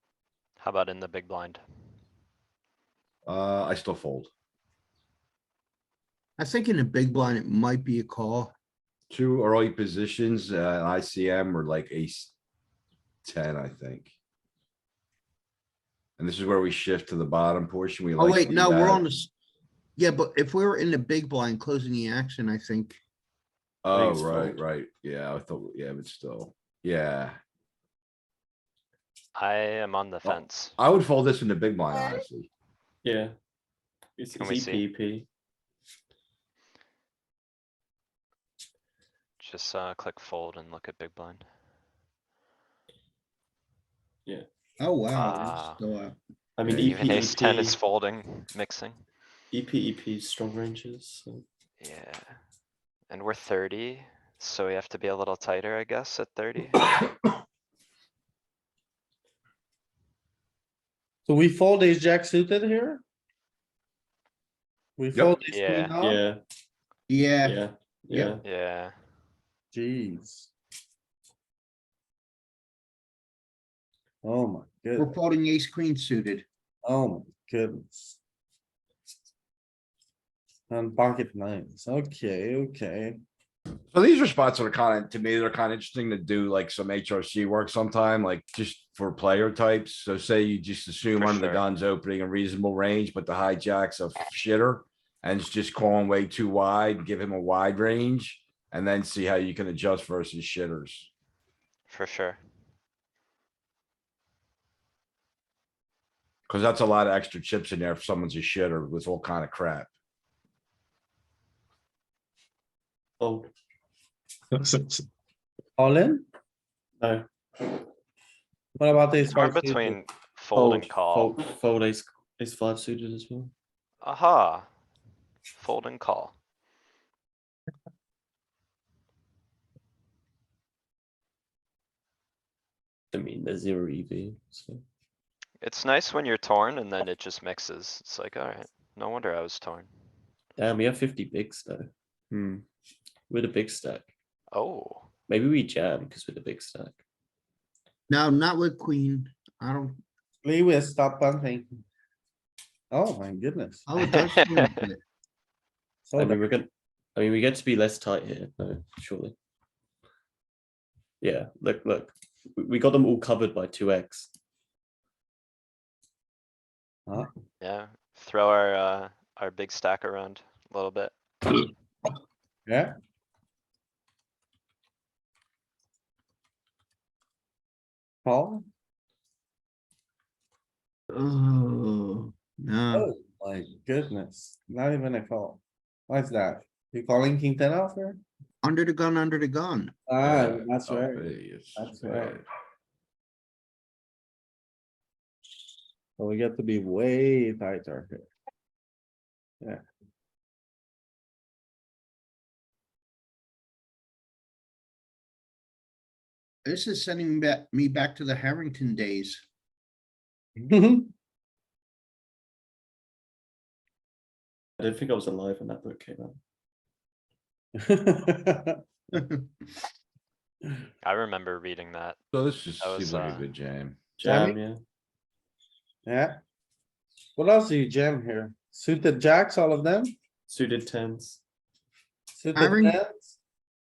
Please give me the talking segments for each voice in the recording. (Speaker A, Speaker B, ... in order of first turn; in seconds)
Speaker A: 0.6-1.6, 29.4-30.8, 34.4-34.8, 39.4-41.5, 45.1-45.8, 46.7-49.0, 51.8-52.4, 53.1-56.9, 65.5-66.0, 68.4-69.0, 91.2-91.6, 101.9-102.4, 119.3-121.3, 124.0-124.7, 125.6-126.3, 135.6-139.9, 144.5-145.1, 154.1-154.7, 167.6-171.7, 221.0-222.2, 222.8-223.5
Speaker B: 3.3-4.3, 9.1-12.3, 13.2-14.1, 16.2-19.1, 23.8-27.4, 30.2-32.5, 46.6-47.0, 83.9-101.1, 106.5-109.9, 190.2-192.4, 222.3-224.0
Speaker C: 6.4-8.5, 18.2-19.3, 20.0-23.0, 44.8-46.2, 67.1-67.6, 75.0-76.5, 148.1-150.0, 153.9-155.0, 181.1-183.1, 188.6-189.9, 206.7-209.4, 219.1-219.5, 232.6-233.0
Speaker D: 23.9-24.6, 33.0-33.4, 34.2-35.3, 46.6-47.8, 49.5-51.4, 66.0-66.4, 67.4-68.4, 113.2-113.5, 117.0-117.8, 120.5-123.5, 133.1-134.8, 140.6-142.6, 143.3-144.1, 145.3-147.0, 156.2-159.3, 161.2-164.3, 214.8-216.4, 224.2-224.8, 230.5-231.4
Speaker E: 61.3-63.0, 65.0-66.2, 69.7-70.5, 74.2-75.1, 76.8-78.2, 80.7-83.2, 114.6-115.0, 115.8-116.2, 118.8-120.0, 150.4-151.8, 152.9-153.9, 156.1-156.5, 178.2-178.7, 182.9-188.2, 190.1-192.4, 196.2-198.3, 210.6-211.1, 217.8-218.8, 224.3-224.6, 226.1-226.4, 227.4-230.2, 232.3-233.4